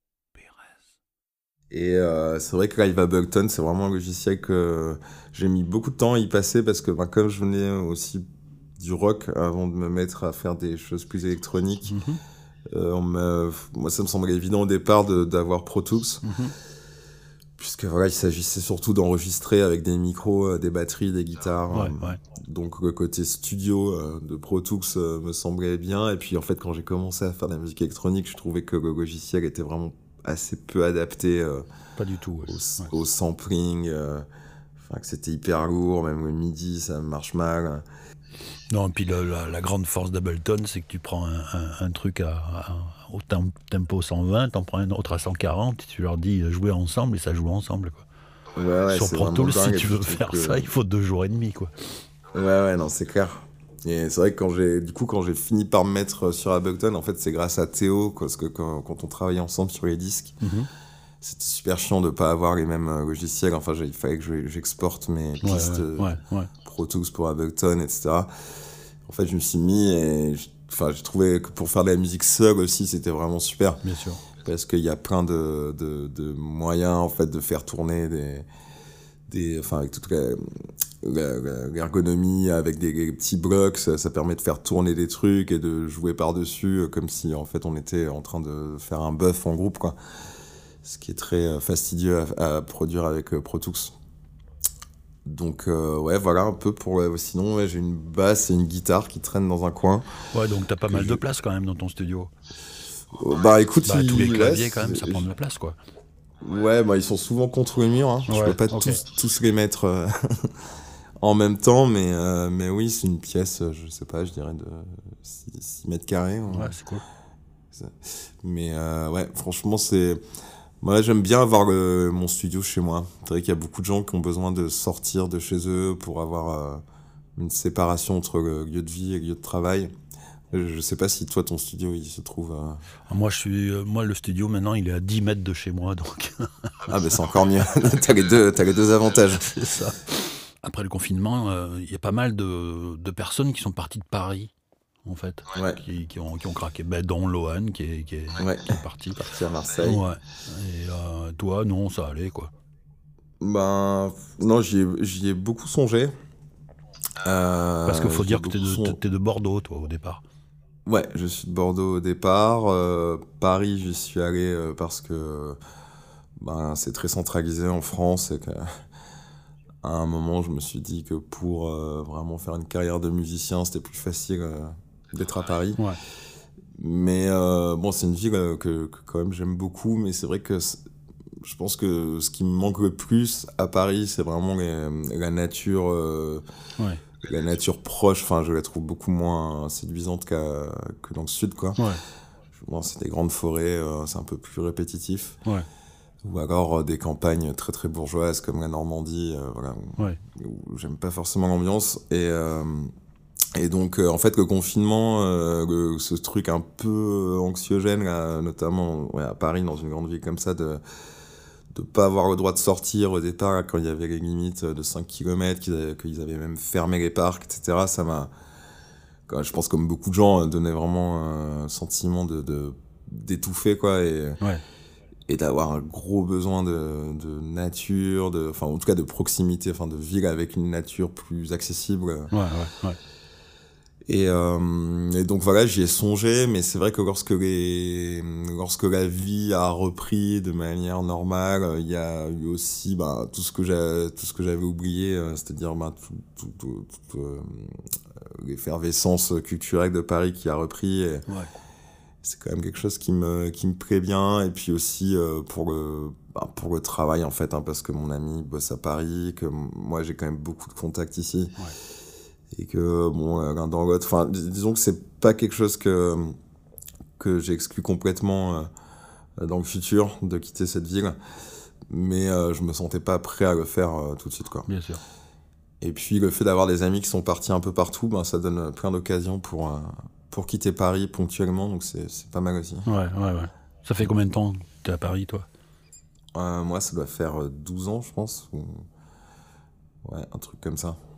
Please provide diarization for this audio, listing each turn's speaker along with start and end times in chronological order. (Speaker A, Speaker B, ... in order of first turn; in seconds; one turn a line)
Speaker A: 0.3-1.0
Speaker B: 1.7-8.2
Speaker B: 8.8-12.0
Speaker A: 11.8-12.2
Speaker B: 12.7-16.2
Speaker A: 16.2-16.5
Speaker B: 17.6-31.7
Speaker A: 21.7-22.2
Speaker A: 32.0-32.9
Speaker B: 32.4-34.3
Speaker B: 34.8-37.8
Speaker A: 38.7-48.1
Speaker B: 48.5-50.7
Speaker A: 48.9-52.0
Speaker B: 52.3-60.4
Speaker A: 60.4-60.7
Speaker B: 61.2-68.3
Speaker A: 65.4-66.5
Speaker B: 69.1-73.8
Speaker A: 73.8-74.2
Speaker B: 74.4-78.5
Speaker B: 79.3-90.0
Speaker B: 90.8-93.9
Speaker B: 95.3-100.1
Speaker A: 100.3-102.3
Speaker B: 100.9-101.2
Speaker B: 103.1-105.3
Speaker A: 103.8-105.8
Speaker B: 106.4-110.5
Speaker A: 108.3-109.0
Speaker B: 111.2-116.7
Speaker A: 116.5-117.0
Speaker B: 117.7-120.2
Speaker B: 120.8-126.8
Speaker B: 127.4-129.9
Speaker B: 130.5-132.8
Speaker A: 133.1-137.2
Speaker B: 136.9-139.4
Speaker A: 139.3-144.5
Speaker A: 145.1-149.2
Speaker B: 145.5-145.8
Speaker B: 148.4-150.0
Speaker A: 149.8-152.5
Speaker B: 153.4-156.1
Speaker B: 157.2-159.0
Speaker A: 157.9-160.2
Speaker B: 160.9-165.6
Speaker B: 166.4-168.7
Speaker B: 169.8-175.8
Speaker B: 176.8-180.8
Speaker B: 181.4-186.4
Speaker B: 187.2-191.8
Speaker A: 191.8-192.0
Speaker B: 192.6-195.4
Speaker B: 196.2-202.9
Speaker B: 203.6-210.8
Speaker B: 211.7-218.3
Speaker B: 219.3-224.4
Speaker B: 225.3-232.3
Speaker A: 232.3-233.0
Speaker B: 234.1-251.2
Speaker B: 252.2-261.6
Speaker B: 262.5-266.3
Speaker B: 267.2-268.7
Speaker B: 269.4-271.2
Speaker B: 271.9-274.7
Speaker A: 274.7-275.0
Speaker B: 275.8-282.9
Speaker A: 282.9-285.5
Speaker B: 286.4-288.9
Speaker B: 290.0-291.0